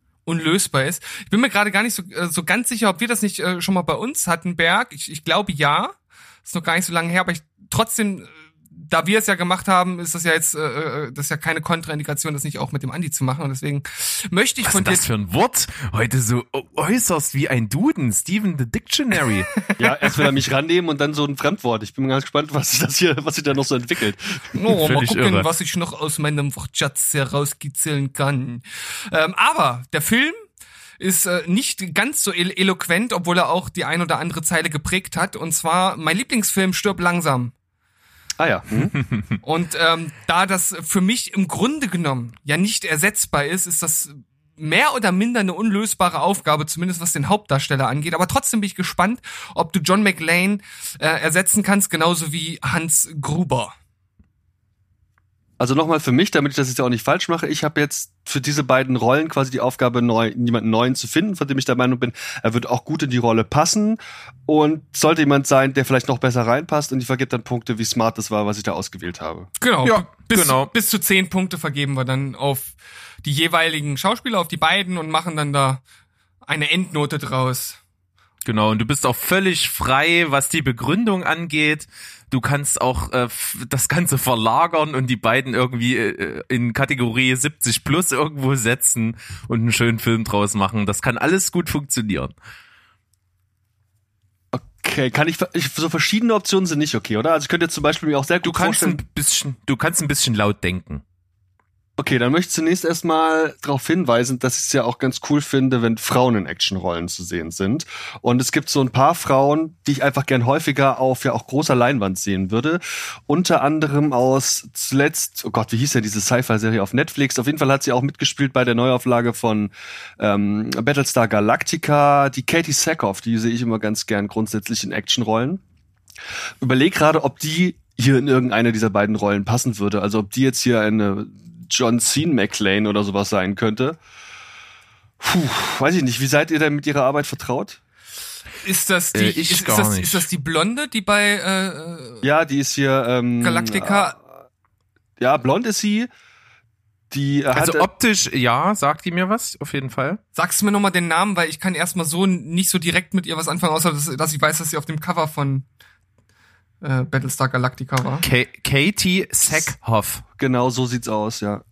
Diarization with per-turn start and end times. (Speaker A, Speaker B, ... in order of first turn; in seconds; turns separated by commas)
Speaker A: 0.2-15.1, Speaker B: 14.6-19.5, Speaker A: 19.7-20.1, Speaker C: 19.8-24.5, Speaker A: 24.5-30.4, Speaker B: 24.7-25.5, Speaker A: 31.0-37.5, Speaker C: 38.4-38.9, Speaker A: 39.4-53.7, Speaker C: 55.6-69.5, Speaker A: 69.6-75.8, Speaker B: 69.8-70.7, Speaker A: 76.5-77.8, Speaker B: 78.4-92.3, Speaker C: 94.5-99.0, Speaker B: 98.4-101.0, Speaker C: 102.0-125.6, Speaker C: 126.6-134.0, Speaker C: 135.2-137.8, Speaker A: 138.6-142.2, Speaker B: 139.1-140.3, Speaker C: 142.2-144.2, Speaker A: 143.4-144.2, Speaker C: 145.2-146.1, Speaker C: 147.1-147.9, Speaker B: 147.5-150.2, Speaker A: 150.3-155.7, Speaker A: 156.8-158.2, Speaker B: 158.2-160.2, Speaker C: 160.4-161.6